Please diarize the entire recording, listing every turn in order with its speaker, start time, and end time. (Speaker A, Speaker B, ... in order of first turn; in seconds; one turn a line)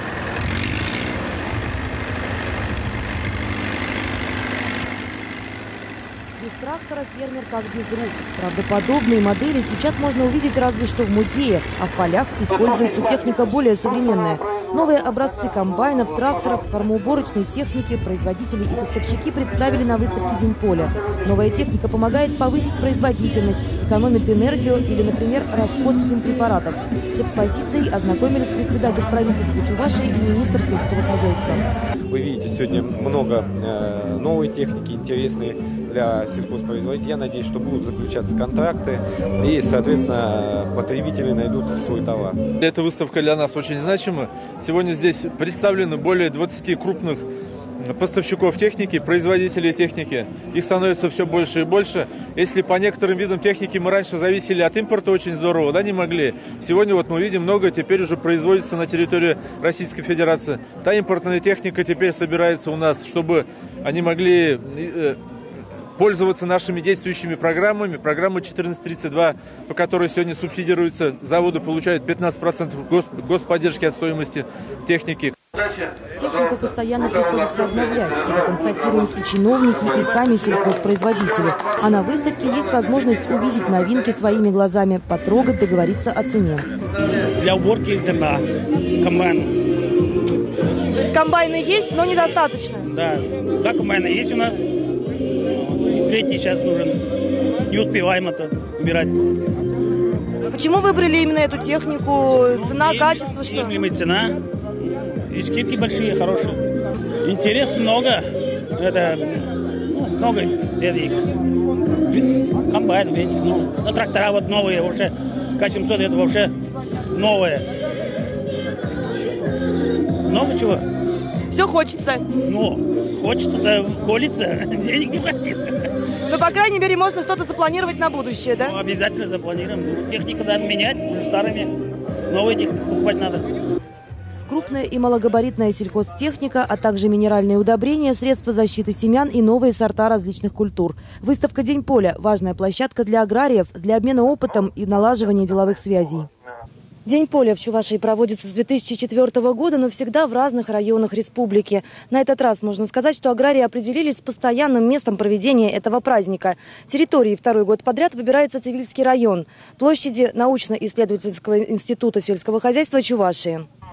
Speaker A: 6.4-31.7
Speaker B: 32.1-42.4
Speaker C: 42.6-47.2
Speaker C: 47.8-65.2
Speaker C: 66.0-75.3
Speaker A: 76.2-86.7
Speaker D: 87.3-88.4
Speaker D: 89.0-89.5
Speaker A: 90.9-92.8
Speaker D: 92.8-94.6
Speaker D: 95.7-97.0
Speaker D: 97.7-99.1
Speaker A: 100.5-103.8
Speaker D: 102.6-104.3
Speaker D: 105.3-106.6
Speaker D: 107.2-108.2
Speaker D: 108.8-111.2
Speaker D: 112.1-116.5
Speaker D: 117.1-117.7
Speaker D: 120.3-120.8
Speaker A: 121.5-122.2
Speaker D: 122.4-125.9
Speaker A: 126.3-128.7
Speaker D: 128.7-131.7
Speaker D: 132.3-133.4
Speaker A: 134.5-146.3
Speaker A: 147.1-163.7